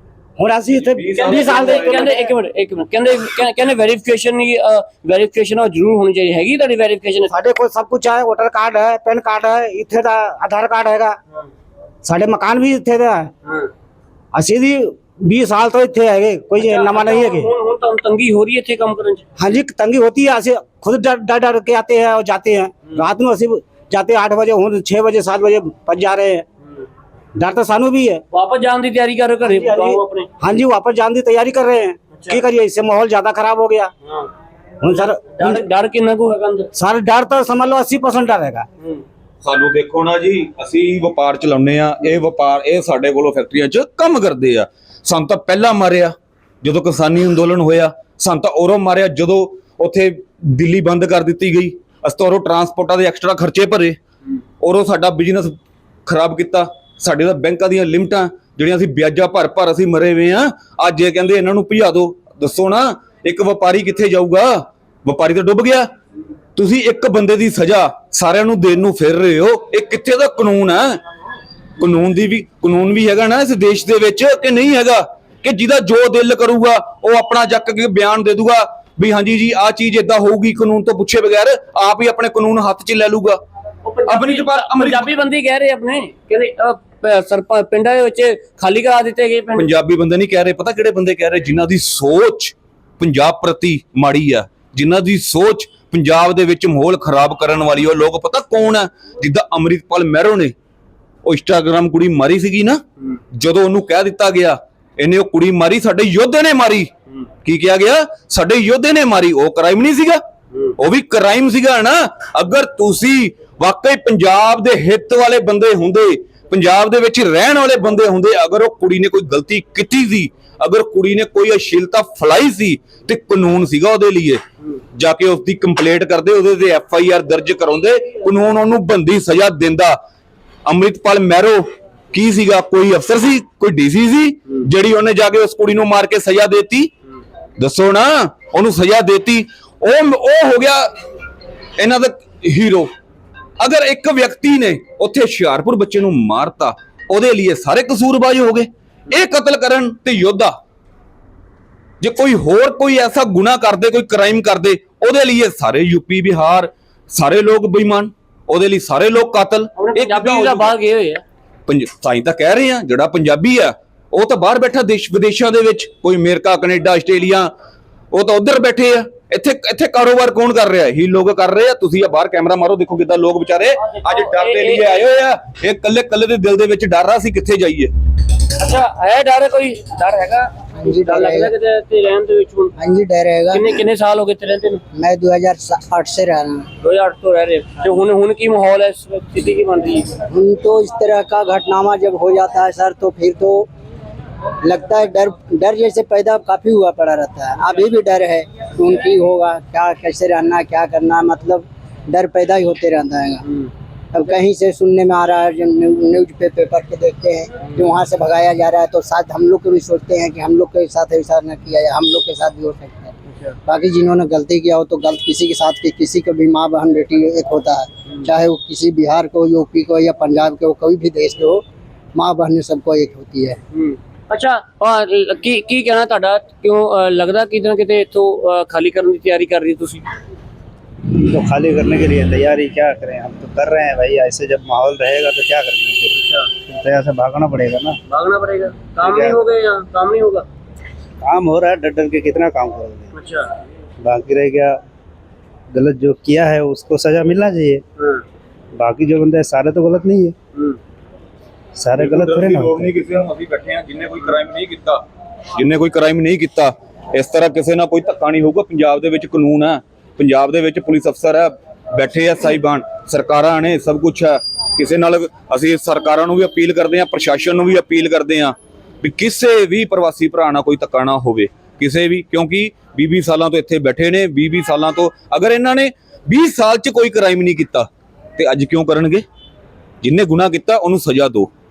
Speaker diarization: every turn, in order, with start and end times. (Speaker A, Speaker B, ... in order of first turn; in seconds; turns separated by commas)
Speaker A: 0.4-2.3, Speaker B: 0.8-2.1, Speaker C: 1.2-7.3, Speaker A: 7.3-11.2, Speaker A: 12.0-13.3, Speaker A: 14.3-17.5, Speaker C: 16.6-19.2, Speaker A: 19.4-26.4, Speaker A: 27.4-28.2, Speaker C: 28.3-30.3, Speaker A: 29.4-33.9, Speaker C: 32.1-32.4, Speaker C: 34.0-34.3, Speaker A: 34.8-35.6, Speaker C: 35.0-36.7, Speaker A: 36.8-38.7, Speaker B: 39.4-54.0, Speaker B: 54.6-65.9, Speaker B: 66.5-71.0, Speaker B: 71.8-83.4, Speaker C: 83.8-89.7, Speaker B: 84.1-85.1, Speaker B: 89.5-100.5, Speaker B: 101.2-106.9, Speaker B: 107.4-110.2, Speaker B: 110.8-124.4, Speaker B: 124.9-130.0, Speaker B: 130.7-136.9, Speaker B: 137.6-140.9, Speaker B: 141.8-142.9, Speaker B: 143.6-150.5, Speaker B: 152.0-160.7, Speaker C: 159.8-161.2, Speaker B: 161.7-167.5, Speaker B: 168.1-177.9, Speaker C: 173.8-175.0, Speaker C: 178.5-182.7, Speaker D: 180.8-181.5, Speaker D: 182.8-183.7, Speaker C: 183.5-184.8, Speaker D: 184.9-186.7, Speaker C: 186.8-190.1, Speaker D: 190.3-193.7, Speaker D: 194.6-203.4, Speaker D: 204.1-213.1, Speaker D: 213.7-221.6, Speaker D: 222.1-223.6, Speaker C: 223.7-230.1, Speaker E: 231.1-236.1, Speaker A: 233.1-233.4, Speaker C: 236.1-236.5, Speaker E: 236.7-238.0, Speaker C: 238.1-240.5, Speaker E: 239.0-239.4, Speaker E: 241.2-242.5, Speaker A: 241.3-243.0, Speaker C: 243.1-243.5, Speaker E: 244.0-244.8, Speaker E: 245.7-247.8, Speaker E: 248.8-250.3, Speaker A: 249.1-250.3, Speaker E: 251.8-252.8, Speaker B: 252.0-279.2, Speaker B: 280.0-281.5